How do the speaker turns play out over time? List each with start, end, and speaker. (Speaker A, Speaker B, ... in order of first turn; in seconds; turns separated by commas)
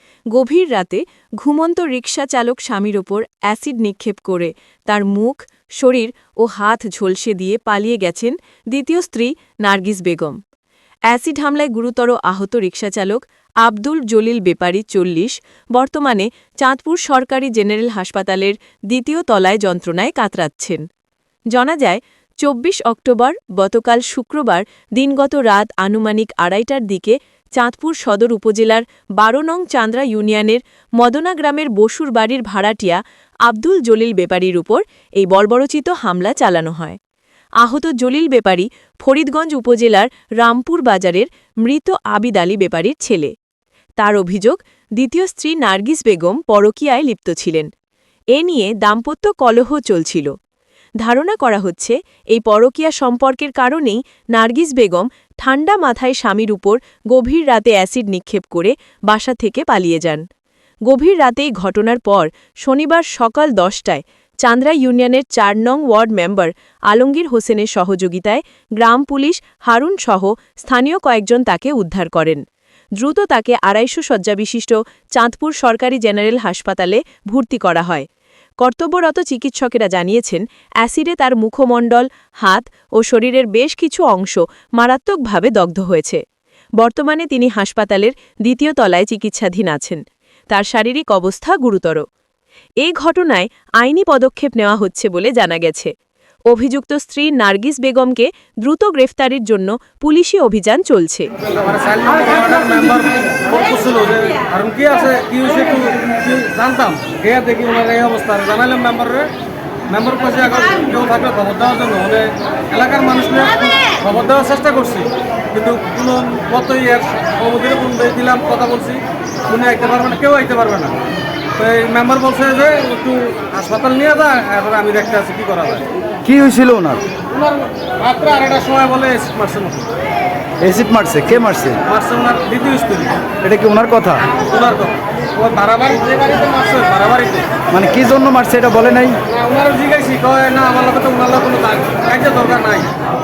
Speaker A: 0.3-10.4, Speaker A: 11.1-20.8, Speaker A: 21.5-37.0, Speaker A: 37.6-43.3, Speaker A: 44.0-47.7, Speaker A: 48.3-50.3, Speaker A: 51.0-60.2, Speaker A: 60.9-72.4, Speaker A: 73.0-78.0, Speaker A: 78.6-86.2, Speaker A: 86.8-92.0, Speaker A: 92.8-95.9, Speaker A: 96.5-101.3, Speaker B: 101.5-109.3, Speaker B: 109.9-121.0, Speaker B: 121.6-125.9, Speaker C: 126.2-127.0, Speaker B: 127.3-129.9, Speaker C: 130.6-131.8, Speaker B: 131.8-133.2, Speaker C: 133.4-134.2, Speaker B: 134.4-137.6, Speaker C: 137.7-139.2, Speaker B: 139.2-142.9